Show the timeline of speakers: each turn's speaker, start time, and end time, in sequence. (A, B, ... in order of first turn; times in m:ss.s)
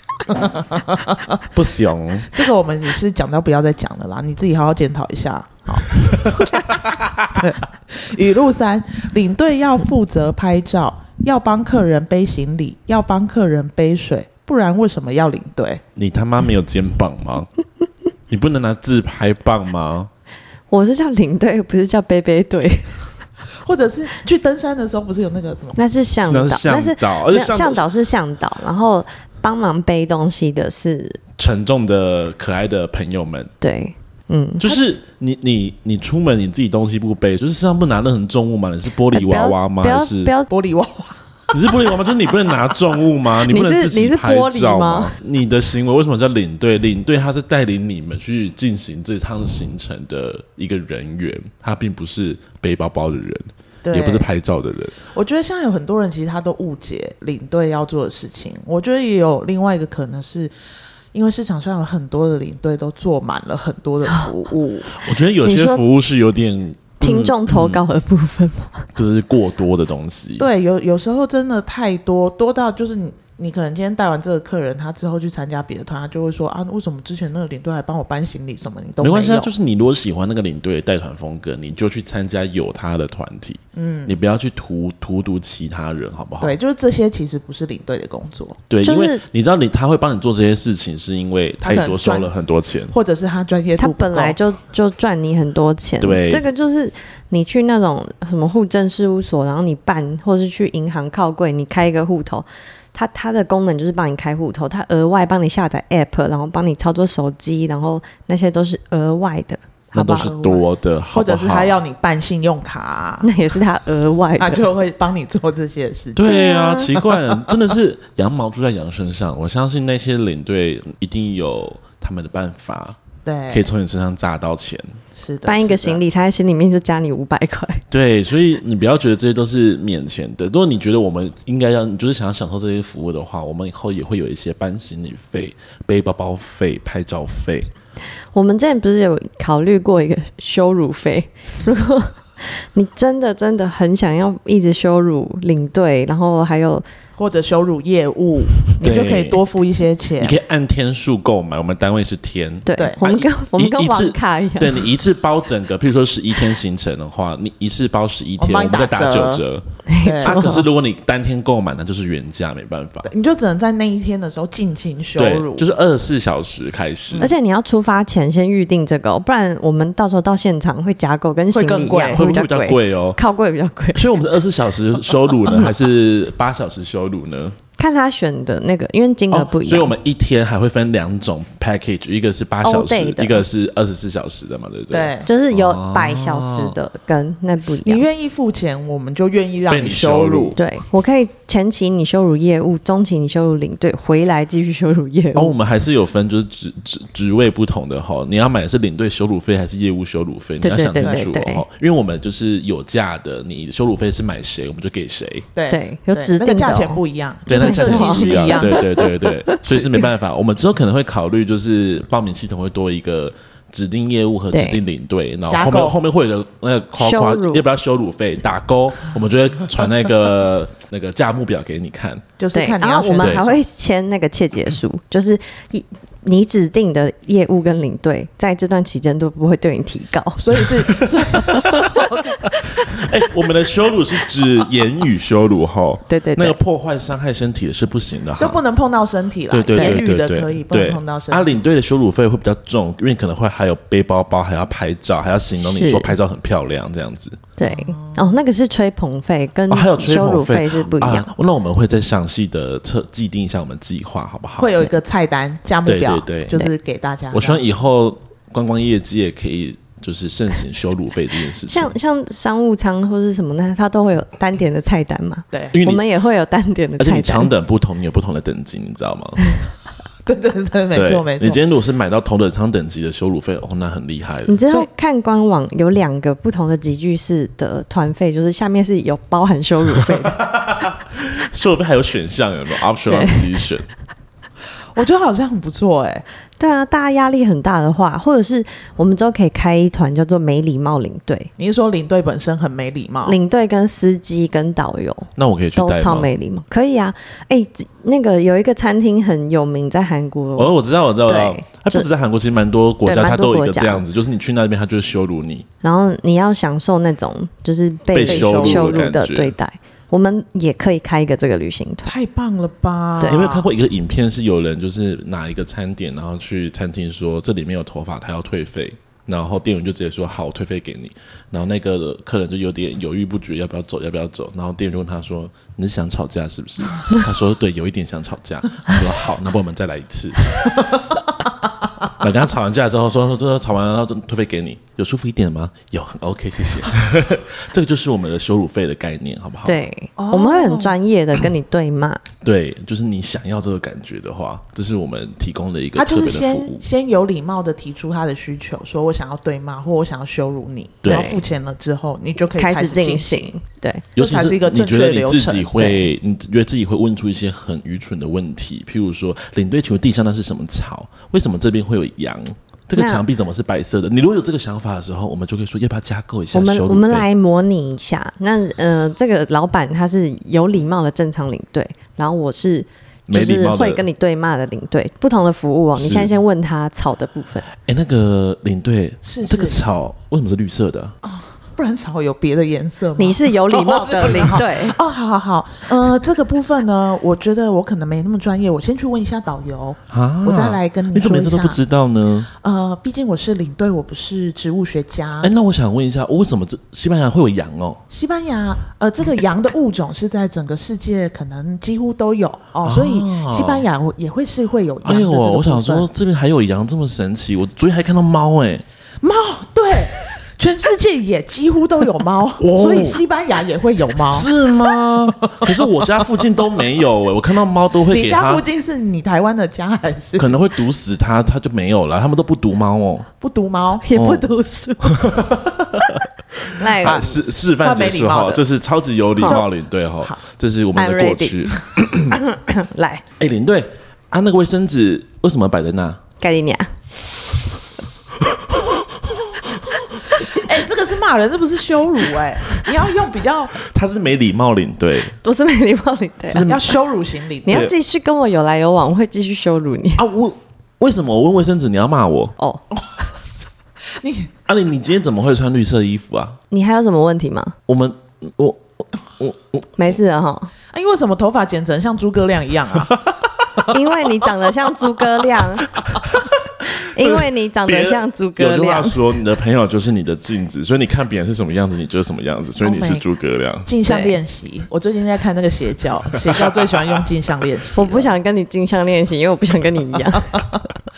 0:00.3-0:01.4 A
0:01.5-0:02.4 B
0:02.3-0:15.8 A
0:06.1-0:07.4 B
0:16.0-0:17.5 B
0:18.3-0:20.1 B
0:20.7-0:23.0 C
0:23.6-0:25.8 A
0:25.8-0:31.2 C
0:26.2-0:27.8 B
0:31.4-0:33.5 B
0:33.6-0:34.7 C
0:34.6-0:40.3 B
0:34.6-0:35.0 A
0:39.1-0:40.5 C
0:40.5-0:41.9 A
0:41.5-0:55.0 B
0:43.4-0:45.1 C
0:53.8-0:54.3 A
0:55.1-1:00.5 A
1:01.1-1:05.0 A
1:04.9-1:07.8 B
1:05.4-1:05.8 C
1:07.0-1:08.8 C
1:08.9-1:10.5 B
1:10.4-1:19.5 A
1:19.0-1:26.6 B
1:23.7-1:24.2 A
1:26.4-1:28.6 A
1:28.7-1:32.9 B
1:28.8-1:29.2 C
1:31.6-1:32.3 A
1:32.9-1:34.4 A
1:33.8-1:50.4 C
1:36.0-1:36.4 B
1:49.9-1:51.8 B
1:50.1-1:53.3 A
1:53.2-1:54.6 C
1:54.4-1:57.6 A
1:56.2-2:03.0 B
1:56.2-1:56.9 C
2:03.2-2:03.7 A
2:03.5-2:05.0 B
2:05.1-2:06.0 A
2:05.4-2:07.8 C
2:07.9-2:17.7 B
2:18.3-2:26.8 C
2:27.2-2:30.3 A
2:28.8-2:29.4 B
2:30.2-2:39.6 B
2:32.6-2:34.9 C
2:32.8-2:33.0 A
2:38.4-2:39.4 A
2:39.9-2:40.6 C
2:40.0-2:40.4 A
2:40.2-2:43.1 B
2:43.0-2:45.6 A
2:45.2-2:47.3 B
2:47.2-2:54.1 C
2:51.5-2:52.2 A
2:52.0-2:53.2 B
2:53.9-2:57.6 B
2:55.5-2:55.7 C
2:57.8-2:59.9 C
2:59.3-3:06.8 B
3:02.6-3:03.4 C
3:04.9-3:05.3 A
3:05.2-3:08.0 C
3:07.8-3:10.6 A
3:09.7-3:10.6 B
3:10.6-3:15.5 C
3:15.3-3:25.5 B
3:20.6-3:21.6 C
3:21.0-3:21.2 A
3:25.5-3:29.1 A
3:25.7-3:29.7 C
3:27.5-3:42.3 B
3:29.6-3:29.9 A
3:34.5-3:34.8 C
3:35.5-3:36.0 A
3:37.0-3:37.6 C
3:42.4-3:43.6 A
3:42.5-3:50.4 C
3:43.2-3:43.6 B
3:50.4-3:53.0 A
3:50.9-3:58.6 B
3:56.1-3:56.6 C
3:58.4-4:01.5 A
3:59.5-4:07.4 B
3:59.7-4:00.0 C
4:05.6-4:06.2 C
4:07.6-4:11.3 C
4:07.6-4:08.4 A
4:09.7-4:14.9 B
4:14.6-4:17.6 A
4:15.8-4:16.5 B
4:17.3-4:21.9 B
4:21.7-4:27.5 C
4:25.5-4:25.8 A
4:25.7-4:26.0 B
4:27.0-4:29.4 B
4:30.2-4:31.6 A
4:30.9-4:34.8 B
4:34.5-4:40.4 C
4:40.0-4:43.8 B
4:43.0-4:43.4 C
4:44.9-4:46.2 A
4:46.6-4:51.5 C
4:51.6-4:53.4 A
4:53.2-5:02.1 C
4:55.4-4:56.3 B
5:00.6-5:05.7 B
5:03.0-5:04.0 C
5:05.8-5:12.1 C
5:08.1-5:09.5 B
5:08.3-5:09.0 A
5:12.0-5:13.7 A
5:13.3-5:31.0 B
5:32.2-5:39.8 B
5:39.6-5:42.2 C
5:40.2-5:40.9 A
5:42.4-5:46.8 B
5:45.9-5:53.5 A
5:51.0-5:51.3 B
5:51.0-5:51.4 C
5:52.5-5:54.0 C
5:54.2-5:56.0 A
5:54.2-6:07.2 B
6:02.9-6:03.2 C
6:06.5-6:17.7 C
6:13.3-6:14.0 B
6:16.0-6:16.3 B
6:17.7-6:21.2 B
6:19.2-6:19.8 A
6:21.2-6:31.8 A
6:23.2-6:25.0 C
6:30.1-6:32.5 B
6:32.6-6:35.5 A
6:35.4-6:38.0 B
6:38.1-6:46.1 A
6:42.8-6:43.8 B
6:45.0-6:48.8 B
6:49.2-6:54.5 A
6:52.6-6:53.2 B
6:54.2-6:58.6 B
6:55.4-6:56.3 A
6:58.0-7:00.6 A
7:00.4-7:03.3 B
7:03.4-7:04.0 A
7:04.0-7:05.3 C
7:04.1-7:04.5 B
7:05.0-7:06.2 B
7:06.7-7:07.2 C
7:06.8-7:12.4 B
7:07.0-7:08.6 A
7:09.4-7:09.7 A
7:10.9-7:11.7 C
7:12.3-7:13.2 C
7:13.4-7:16.2 B
7:16.4-7:16.9 C
7:18.4-7:20.6 B
7:20.2-7:23.8 A
7:23.8-7:25.4 B
7:25.4-7:26.7 C
7:26.5-7:27.0 B
7:26.6-7:27.9 A
7:27.6-7:30.2 C
7:27.7-7:27.9 B
7:30.2-7:32.6 B
7:32.6-7:32.8 C
7:33.0-7:33.4 A
7:34.1-7:34.5 A
7:34.6-7:36.6 B
7:36.7-7:37.8 C
7:37.9-7:40.2 B
7:40.0-7:40.7 C
7:40.9-7:43.2 A
7:43.0-7:43.4 B
7:43.9-7:45.9 C
7:45.9-7:53.9 B
7:46.8-7:49.2 C
7:52.8-7:53.2 A
7:53.8-7:58.3 A
7:54.0-7:54.4 C
7:56.4-7:57.0 B
7:57.9-8:00.6 C
8:00.3-8:00.8 A